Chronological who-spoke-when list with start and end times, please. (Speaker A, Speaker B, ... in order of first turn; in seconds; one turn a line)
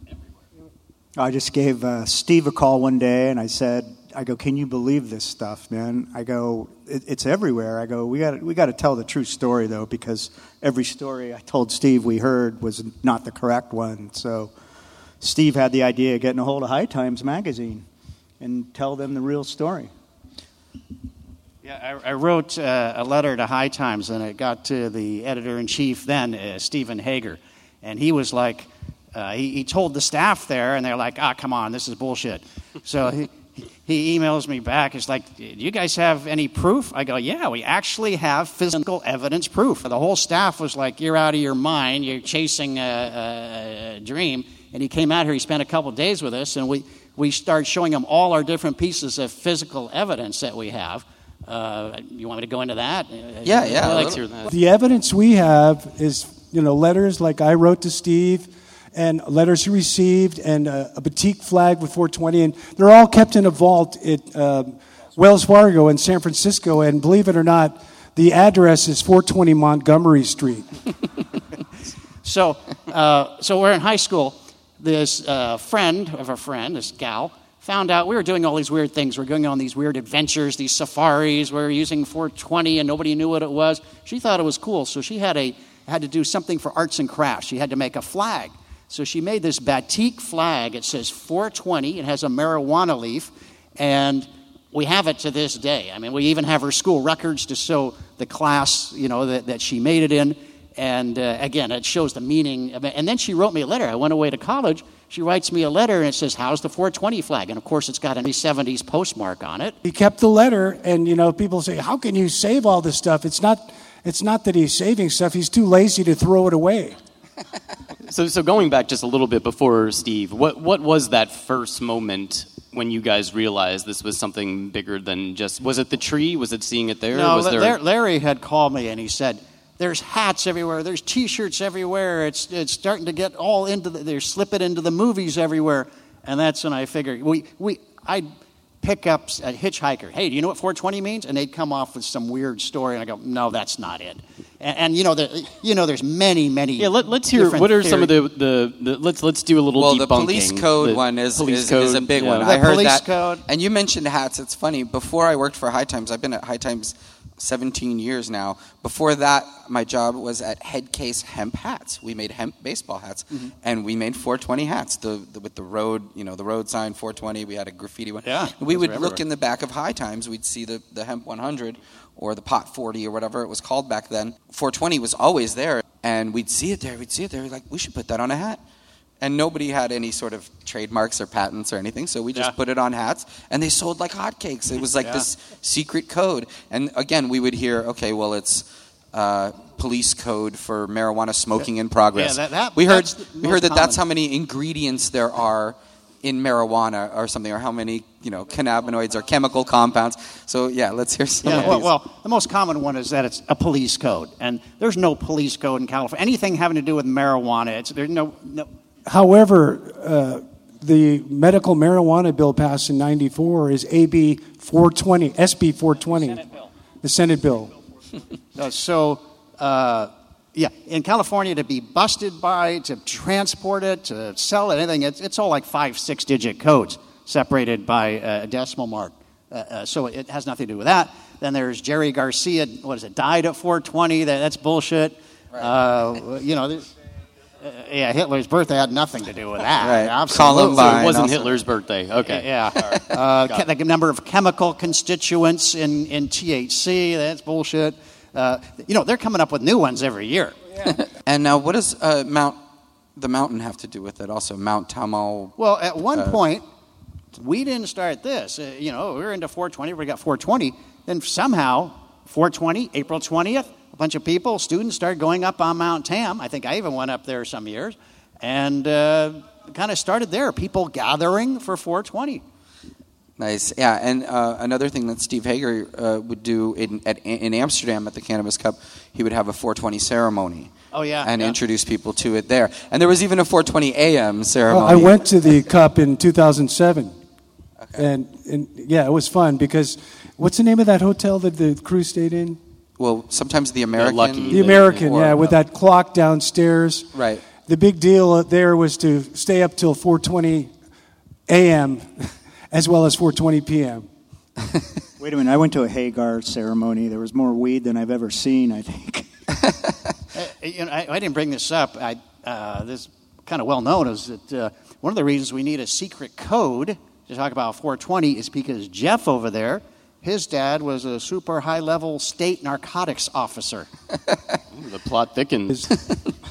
Speaker A: 1.1-14.5
Speaker A: 15.2-17.9
Speaker A: 18.4-19.9
Speaker B: 21.6-54.2
Speaker C: 53.4-54.2
Speaker D: 53.9-54.5
Speaker E: 54.5-70.7
Speaker B: 72.2-109.8
Speaker E: 109.8-117.0
Speaker D: 118.1-127.8
Speaker B: 127.1-138.3
Speaker B: 138.8-148.1
Speaker D: 146.8-152.5
Speaker C: 149.8-178.6
Speaker B: 152.4-153.4
Speaker B: 168.2-169.2
Speaker C: 179.2-201.9
Speaker B: 192.2-194.0
Speaker B: 201.4-208.7
Speaker E: 209.1-216.5
Speaker E: 217.0-217.7
Speaker B: 218.6-236.9
Speaker B: 237.6-241.3
Speaker C: 239.8-241.5
Speaker D: 240.5-243.6
Speaker B: 242.2-250.9
Speaker C: 251.2-252.6
Speaker C: 253.2-255.6
Speaker B: 255.6-256.6
Speaker B: 257.4-272.4
Speaker C: 273.4-280.7
Speaker B: 280.9-281.6
Speaker C: 281.2-285.1
Speaker E: 284.7-287.1
Speaker E: 287.9-292.6
Speaker C: 293.0-295.5
Speaker D: 293.9-295.3
Speaker E: 294.5-297.1
Speaker C: 297.1-297.4
Speaker E: 297.6-300.7
Speaker E: 301.5-304.1
Speaker A: 305.2-309.3
Speaker B: 310.4-323.9
Speaker D: 324.7-325.9